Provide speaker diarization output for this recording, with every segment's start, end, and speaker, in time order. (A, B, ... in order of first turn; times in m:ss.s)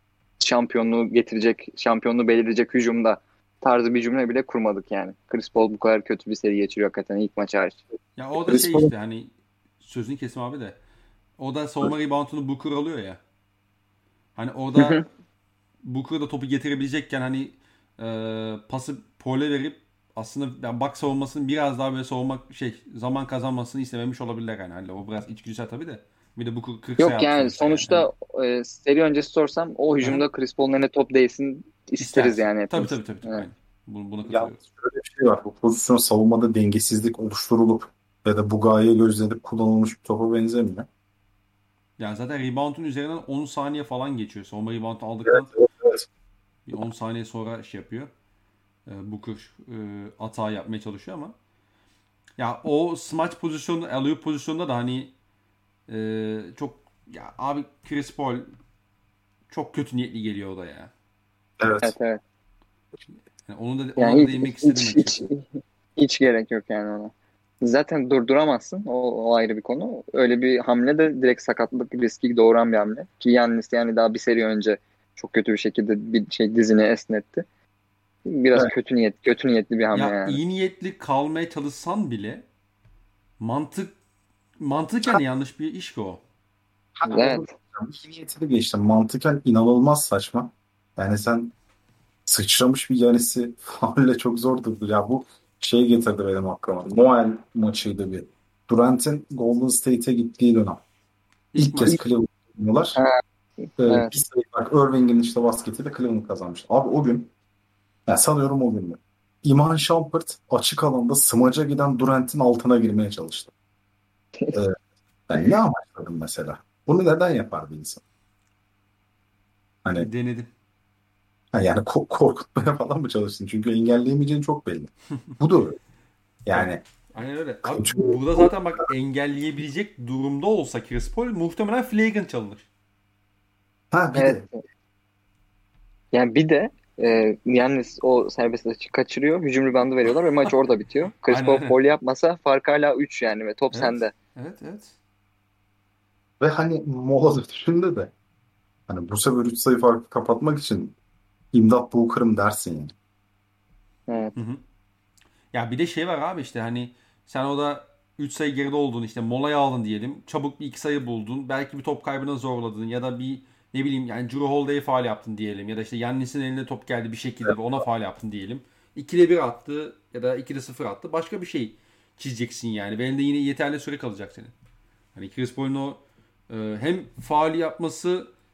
0:00.4-0:07.8 A
0:08.2-0:10.8 B
0:08.5-0:08.9 C
0:11.4-0:13.2 B
0:14.4-0:15.0 B
0:14.8-0:15.0 A
0:15.8-0:28.1 B
0:27.0-0:33.4 A
0:32.0-0:34.6 B
0:34.3-0:40.9 C
0:42.0-0:45.5 B
0:45.3-0:46.1 C
0:46.7-0:48.1 B
0:48.9-0:51.4 B
0:52.4-0:55.1 B
0:55.9-0:58.5 B
0:59.5-1:00.9 B
1:01.6-1:01.9 C
1:01.8-1:02.2 A
1:03.2-1:05.2 B
1:04.0-1:05.4 A
1:06.0-1:17.4 A
1:18.3-1:20.4 A
1:19.9-1:22.4 B
1:23.4-1:24.0 B
1:24.6-1:26.2 B
1:27.0-1:31.5 C
1:27.1-1:27.5 A
1:32.3-1:40.8 C
1:41.5-1:42.0 B
1:41.6-1:43.0 C
1:43.0-1:44.1 A
1:43.8-1:47.3 C
1:48.1-1:53.5 C
1:55.3-1:58.0 C
1:59.9-2:00.5 B
2:01.5-2:05.8 C
2:06.4-2:06.8 C
2:06.5-2:12.7 B
2:07.6-2:08.5 C
2:13.9-2:14.4 C
2:14.2-2:14.6 A
2:16.1-2:24.1 A
2:21.3-2:21.8 B
2:23.7-2:25.0 B
2:26.4-2:28.1 C
2:28.9-2:30.9 C
2:31.5-2:32.9 C
2:34.1-2:34.4 A
2:34.4-2:34.6 B
2:35.5-2:54.5 B
2:55.2-2:58.3 B